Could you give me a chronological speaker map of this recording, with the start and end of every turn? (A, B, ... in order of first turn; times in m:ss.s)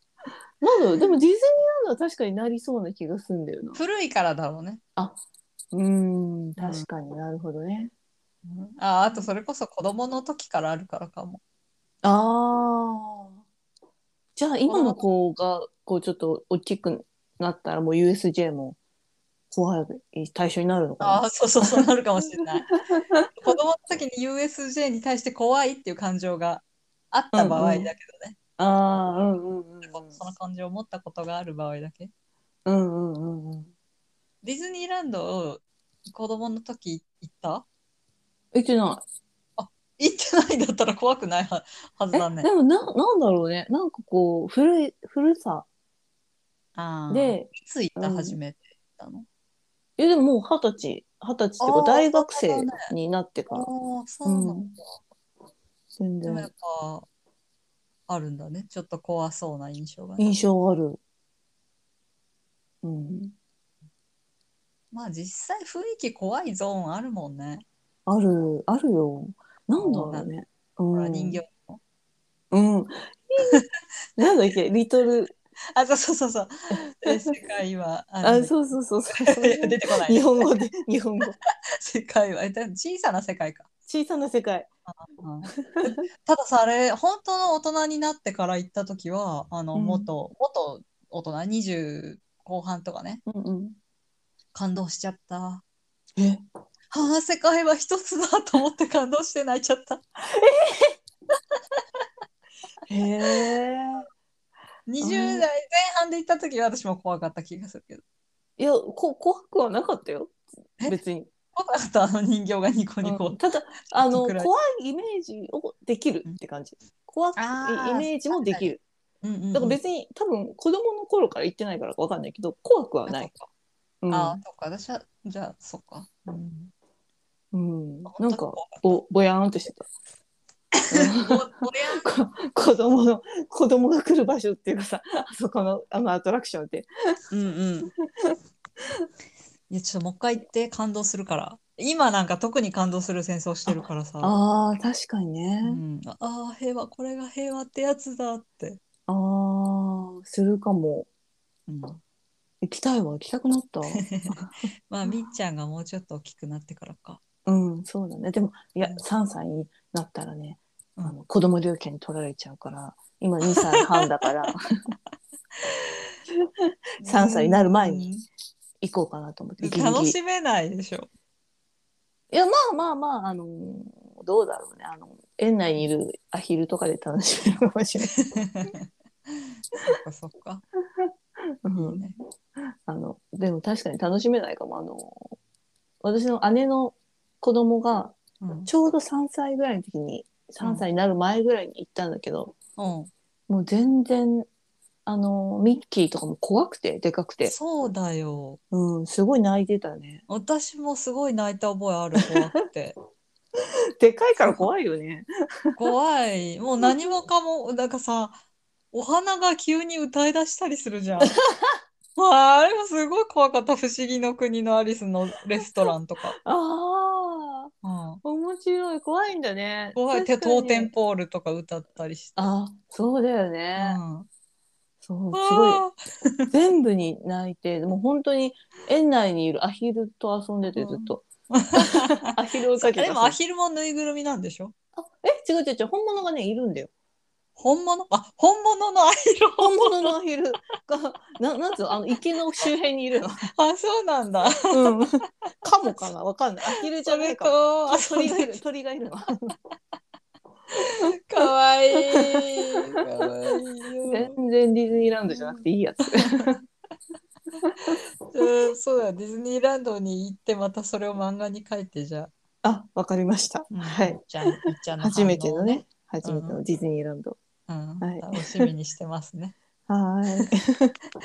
0:00.6-0:03.8 A
0:03.8-0:04.8 B
0:05.7-0:07.9 A
0:06.6-0:06.9 B
0:08.4-0:11.4 B
0:12.0-0:13.4 A
0:14.4-0:18.8 A
0:14.7-0:15.0 B
0:19.5-0:21.8 A
0:21.0-0:22.7 B
0:22.7-0:23.3 A
0:23.4-0:28.4 B
0:27.3-0:27.9 A
0:28.6-0:30.2 A
0:29.9-0:32.1 B
0:32.6-0:33.7 A
0:34.4-0:37.6 B
0:38.5-0:39.0 A
0:39.6-0:42.5 B
0:42.1-0:45.6 A
0:46.8-0:49.2 B
0:47.1-0:48.4 A
0:50.0-0:53.7 A
0:51.6-0:52.9 B
0:53.5-0:54.8 B
0:54.2-0:54.7 A
0:56.0-0:56.5 A
0:56.2-0:57.1 B
0:58.1-1:00.3 B
1:00.2-1:01.0 A
1:02.8-1:03.3 A
1:04.9-1:07.6 B
1:08.0-1:11.4 A
1:09.8-1:10.3 B
1:10.9-1:11.8 B
1:12.5-1:13.6 A
1:14.2-1:15.3 A
1:15.7-1:18.5 B
1:16.7-1:17.3 A
1:18.2-1:21.4 A
1:19.1-1:20.5 B
1:21.8-1:23.7 B
1:23.9-1:24.7 A
1:24.9-1:33.2 B
1:25.5-1:26.0 A
1:29.7-1:30.1 A
1:33.2-1:33.8 A
1:34.5-1:35.6 B
1:36.2-1:36.4 A
1:36.9-1:40.0 B
1:40.2-1:41.0 A
1:42.9-1:44.1 A
1:44.9-1:48.0 B
1:45.0-1:45.5 A
1:48.6-1:51.3 A
1:51.5-1:54.5 B
1:53.0-1:58.8 A
1:57.4-1:58.6 B
1:59.2-1:59.8 B
1:59.5-2:03.3 A
2:03.1-2:03.5 B
2:04.0-2:04.4 A
2:04.1-2:06.7 B
2:07.5-2:09.9 A
2:08.1-2:09.0 B
2:10.9-2:16.9 A
2:10.9-2:12.0 B
2:17.3-2:17.9 B
2:19.7-2:24.3 B
2:23.7-2:25.8 A
2:25.6-2:28.8 B
2:29.1-2:31.1 A
2:31.7-2:32.0 B
2:32.6-2:34.6 A
2:33.9-2:37.2 B
2:37.4-2:44.9 A
2:45.6-2:46.1 B
2:46.6-2:48.1 A
2:47.0-2:48.2 B
2:48.8-2:50.2 A
2:49.6-2:51.1 B
2:52.3-2:58.2 A
2:58.2-3:00.6 B
3:01.6-3:02.1 A
3:01.7-3:02.2 B
3:02.9-3:05.4 A
3:06.0-3:12.5 A
3:08.4-3:08.7 B
3:10.6-3:10.8 B
3:12.8-3:13.1 B
3:13.5-3:14.5 A
3:15.0-3:17.5 A
3:17.4-3:18.6 B
3:18.7-3:20.2 A
3:20.3-3:23.0 B
3:24.0-3:25.8 A
3:24.4-3:24.7 B
3:25.8-3:28.4 B
3:28.9-3:31.3 B
3:31.2-3:31.8 A
3:32.2-3:36.4 B
3:36.4-3:37.7 A
3:37.8-3:38.2 B
3:38.2-3:40.9 A
3:39.9-3:42.5 B
3:42.4-3:44.0 A
3:43.8-3:44.3 B
3:45.0-3:45.8 A
3:45.3-3:46.5 B
3:46.5-3:53.4 A
3:50.8-3:54.7 B
3:55.0-3:56.9 A
3:57.6-4:00.1 B
3:59.6-4:03.5 A
4:03.5-4:04.9 B
4:04.7-4:09.6 A
4:06.7-4:08.6 B
4:10.7-4:14.3 B
4:10.8-4:13.0 A
4:14.0-4:16.6 A
4:15.3-4:15.6 B
4:17.6-4:18.0 A
4:17.8-4:22.3 B
4:22.6-4:27.4 A
4:23.7-4:26.6 B
4:27.7-4:29.5 B
4:28.0-4:28.7 A
4:29.9-4:30.9 A